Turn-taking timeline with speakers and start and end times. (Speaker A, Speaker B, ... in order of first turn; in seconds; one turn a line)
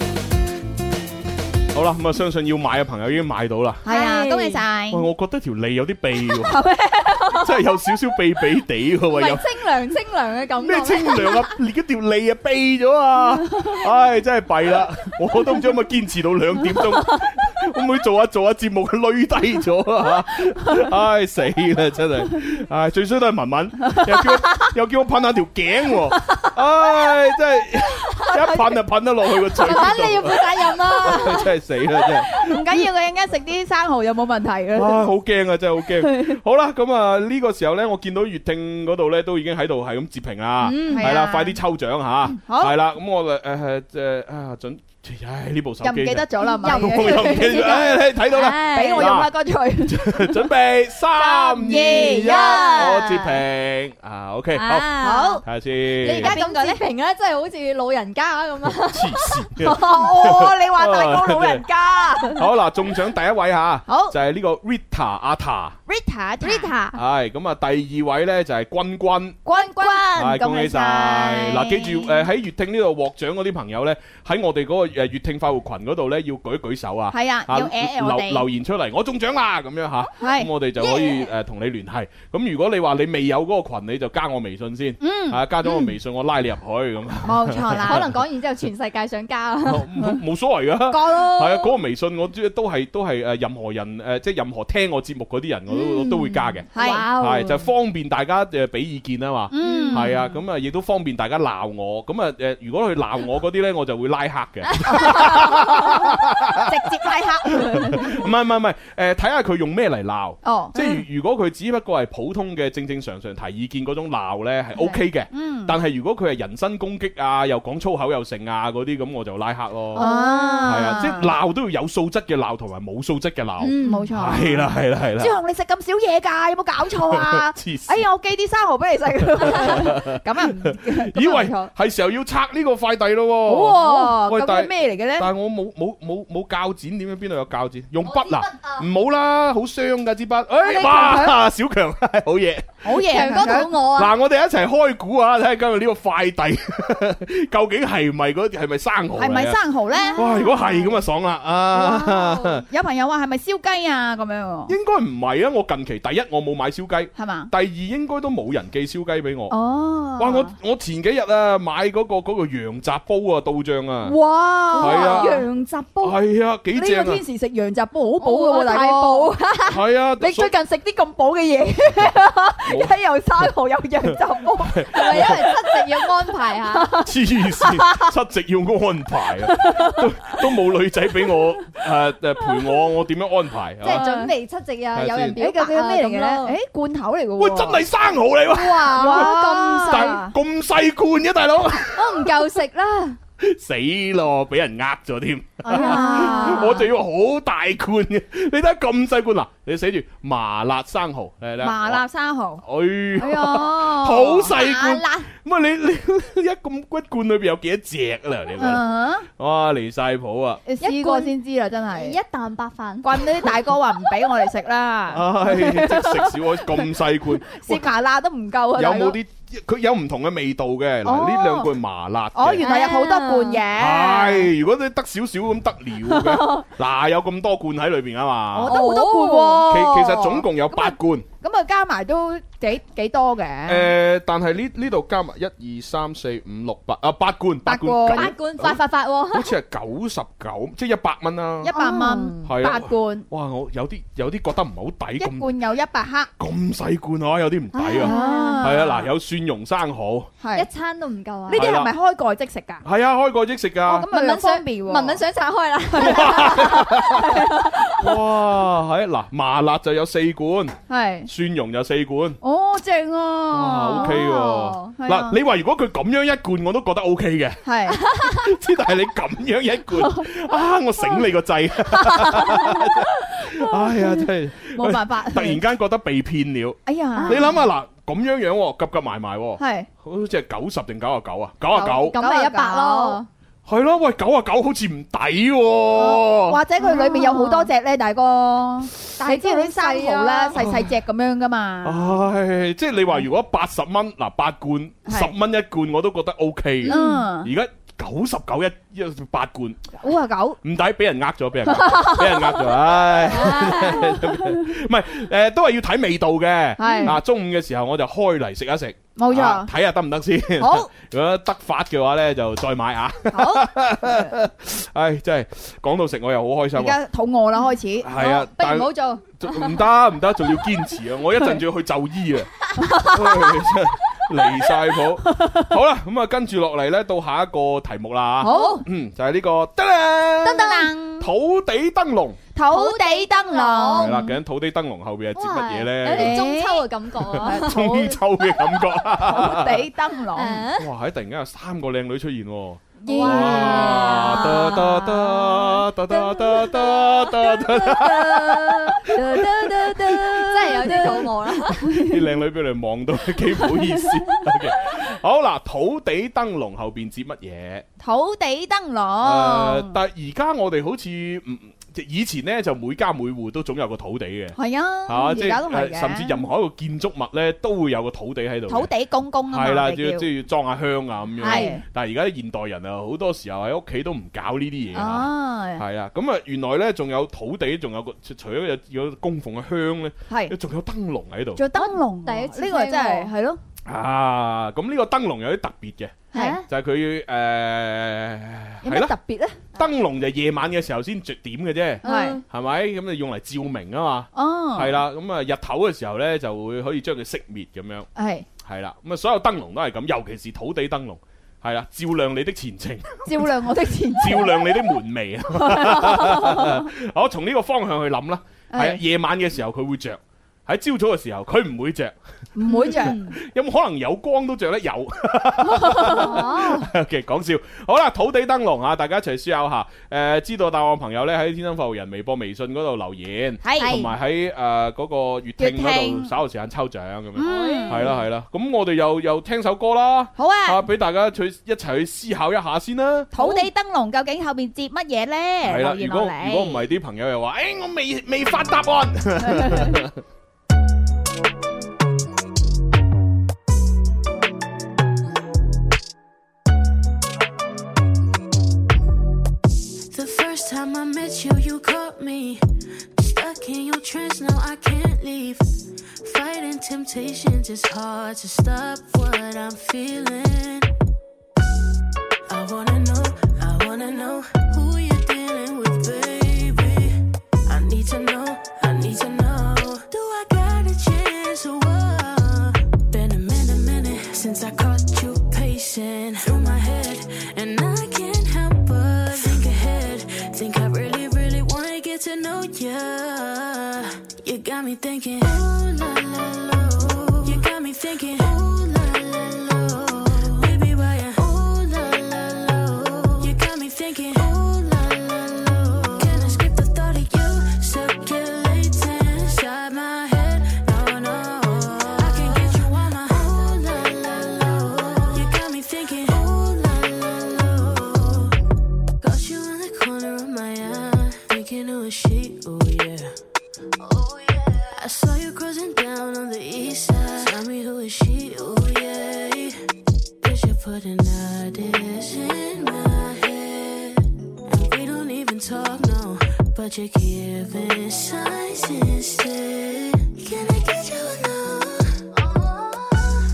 Speaker A: 1.7-3.9
Speaker B: 3.9-5.1
Speaker C: 3.9-4.6
Speaker A: 4.9-6.6
Speaker B: 6.5-7.5
Speaker A: 7.4-9.4
Speaker C: 9.1-11.5
Speaker A: 10.6-32.6
Speaker B: 29.6-30.1
Speaker C: 29.6-31.5
Speaker B: 32.3-35.0
Speaker A: 34.7-49.3
Speaker C: 40.6-41.2
Speaker B: 40.9-41.6
Speaker B: 42.4-42.7
Speaker B: 45.8-47.9
Speaker C: 46.4-49.1
Speaker B: 48.7-50.4
Speaker A: 49.9-54.9
Speaker B: 51.3-53.0
Speaker C: 51.4-53.4
Speaker C: 54.5-55.4
Speaker B: 55.0-55.4
Speaker A: 55.4-56.4
Speaker C: 56.0-59.4
Speaker B: 56.1-56.8
Speaker A: 58.9-61.6
Speaker B: 59.6-62.4
Speaker A: 62.3-65.8
Speaker B: 63.9-64.2
Speaker B: 65.9-66.8
Speaker C: 66.4-67.0
Speaker A: 66.9-69.5
Speaker B: 69.5-72.1
Speaker C: 69.5-70.3
Speaker A: 70.1-88.1
Speaker B: 77.1-78.5
Speaker B: 80.2-80.5
Speaker C: 80.8-81.3
Speaker B: 85.0-85.4
Speaker B: 87.2-88.0
Speaker C: 87.8-90.1
Speaker A: 89.7-107.0
Speaker B: 90.9-91.6
Speaker C: 95.7-97.7
Speaker B: 96.7-97.1
Speaker B: 99.5-100.1
Speaker C: 99.6-100.3
Speaker B: 104.9-105.9
Speaker B: 106.6-108.2
Speaker A: 107.5-120.1
Speaker B: 110.4-111.0
Speaker B: 114.8-115.8
Speaker C: 119.9-121.1
Speaker B: 120.0-121.3
Speaker A: 120.6-125.4
Speaker C: 123.6-124.5
Speaker B: 123.8-131.7
Speaker A: 127.1-128.1
Speaker A: 129.4-142.8
Speaker C: 129.6-129.8
Speaker B: 133.5-135.3
Speaker C: 138.0-138.9
Speaker B: 140.6-141.4
Speaker B: 142.8-143.7
Speaker C: 142.9-144.1
Speaker A: 143.9-149.6
Speaker B: 149.2-150.6
Speaker C: 149.9-150.8
Speaker A: 150.2-152.7
Speaker B: 151.8-154.7
Speaker A: 154.7-159.6
Speaker B: 157.2-157.5
Speaker B: 159.5-160.5
Speaker A: 160.2-164.2
Speaker B: 164.0-165.5
Speaker C: 164.7-166.2
Speaker A: 164.7-165.4
Speaker A: 166.0-167.2
Speaker B: 166.7-169.4
Speaker C: 168.2-169.8
Speaker A: 169.7-170.5
Speaker B: 170.2-176.1
Speaker A: 172.7-172.9
Speaker A: 174.0-175.5
Speaker C: 174.9-177.0
Speaker B: 176.7-178.1
Speaker A: 177.1-184.1
Speaker B: 179.4-180.3
Speaker C: 183.8-186.6
Speaker B: 183.8-184.3
Speaker A: 184.9-185.4
Speaker B: 185.4-187.8
Speaker A: 187.4-192.4
Speaker C: 188.5-190.2
Speaker B: 189.0-190.3
Speaker C: 191.9-193.2
Speaker A: 193.4-202.0
Speaker B: 195.6-196.9
Speaker C: 195.7-196.8
Speaker B: 201.6-202.6
Speaker A: 202.6-208.8
Speaker B: 203.2-205.1
Speaker B: 208.6-209.3
Speaker A: 209.4-210.6
Speaker B: 210.7-212.2
Speaker C: 210.8-211.3
Speaker C: 211.9-213.5
Speaker B: 213.0-216.8
Speaker A: 215.1-217.9
Speaker B: 217.5-219.2
Speaker A: 218.8-222.7
Speaker B: 221.1-221.7
Speaker B: 222.3-224.5
Speaker C: 222.6-223.6
Speaker A: 223.8-228.8
Speaker B: 228.5-230.5
Speaker C: 228.7-229.8
Speaker A: 229.7-231.3
Speaker B: 231.4-233.9
Speaker A: 233.7-241.7
Speaker B: 237.7-238.3
Speaker C: 238.1-239.5
Speaker B: 241.6-243.3
Speaker C: 241.7-242.4
Speaker A: 242.4-245.5
Speaker B: 245.2-246.3
Speaker A: 246.4-250.3
Speaker C: 247.8-249.0
Speaker B: 248.0-248.9
Speaker B: 250.4-250.7
Speaker C: 250.6-251.7
Speaker B: 251.5-252.8
Speaker A: 251.5-251.9
Speaker A: 252.8-254.1
Speaker B: 253.9-255.2
Speaker C: 253.9-258.1
Speaker A: 256.0-257.4
Speaker B: 256.1-256.4
Speaker A: 258.0-262.4
Speaker B: 260.9-261.3
Speaker B: 262.4-264.2
Speaker A: 263.5-282.2
Speaker C: 263.9-264.9
Speaker B: 264.9-265.4
Speaker B: 267.6-268.0
Speaker C: 268.1-268.4
Speaker B: 272.2-273.4
Speaker B: 274.8-275.6
Speaker B: 276.9-277.5
Speaker C: 277.2-277.5
Speaker B: 279.6-279.9
Speaker B: 281.7-283.2
Speaker C: 281.9-283.3
Speaker A: 283.7-286.6
Speaker B: 285.9-292.1
Speaker C: 286.8-287.7
Speaker C: 289.2-290.6
Speaker A: 290.5-290.9
Speaker A: 291.8-299.9
Speaker B: 295.1-295.3
Speaker C: 296.8-297.2
Speaker B: 296.9-297.5
Speaker B: 300.0-300.6
Speaker A: 300.6-317.0
Speaker B: 301.8-302.6
Speaker C: 303.3-304.1
Speaker B: 303.4-304.2
Speaker B: 306.8-307.2
Speaker C: 306.8-307.1
Speaker B: 309.2-309.7
Speaker B: 310.6-310.9
Speaker B: 313.3-314.3
Speaker B: 316.8-318.1
Speaker A: 318.0-332.4
Speaker C: 318.1-319.8
Speaker C: 322.8-323.1
Speaker B: 322.9-323.2
Speaker B: 328.4-328.8
Speaker C: 328.4-328.8
Speaker C: 330.5-330.9
Speaker B: 330.5-331.2
Speaker B: 332.6-334.2
Speaker C: 332.7-334.4
Speaker A: 334.0-336.5
Speaker C: 335.4-338.2
Speaker B: 336.1-336.9
Speaker A: 337.3-339.9
Speaker B: 337.4-337.9
Speaker B: 339.2-340.6
Speaker C: 340.3-340.9
Speaker A: 340.8-357.9
Speaker B: 343.0-344.6
Speaker C: 343.1-351.9
Speaker B: 358.0-360.0
Speaker A: 359.2-368.9
Speaker B: 364.6-366.4
Speaker B: 368.7-370.3
Speaker A: 369.5-381.6
Speaker B: 371.4-371.8
Speaker C: 371.4-371.8
Speaker B: 374.9-375.8
Speaker B: 381.6-383.6
Speaker C: 381.7-383.3
Speaker A: 383.9-389.1
Speaker B: 386.3-386.6
Speaker C: 386.3-386.6
Speaker B: 388.8-389.6
Speaker A: 389.7-398.1
Speaker B: 392.0-392.4
Speaker C: 392.0-392.4
Speaker B: 394.3-395.0
Speaker B: 398.2-398.5
Speaker A: 398.6-412.2
Speaker B: 403.2-404.8
Speaker B: 405.6-406.8
Speaker B: 408.7-409.0
Speaker B: 412.6-413.2
Speaker A: 412.7-433.3
Speaker C: 412.7-413.2
Speaker B: 415.8-416.4
Speaker C: 416.1-416.9
Speaker B: 423.6-424.0
Speaker C: 423.8-424.1
Speaker B: 425.6-426.3
Speaker B: 427.4-428.1
Speaker C: 427.4-428.2
Speaker B: 430.4-430.8
Speaker B: 433.3-436.8
Speaker C: 433.4-433.7
Speaker A: 435.6-440.2
Speaker B: 439.4-440.0
Speaker D: 450.1-452.6
Speaker D: 453.1-455.7
Speaker D: 456.2-460.9
Speaker D: 462.5-508.6
Speaker D: 509.2-513.3
Speaker D: 514.0-519.8
Speaker D: 520.4-533.3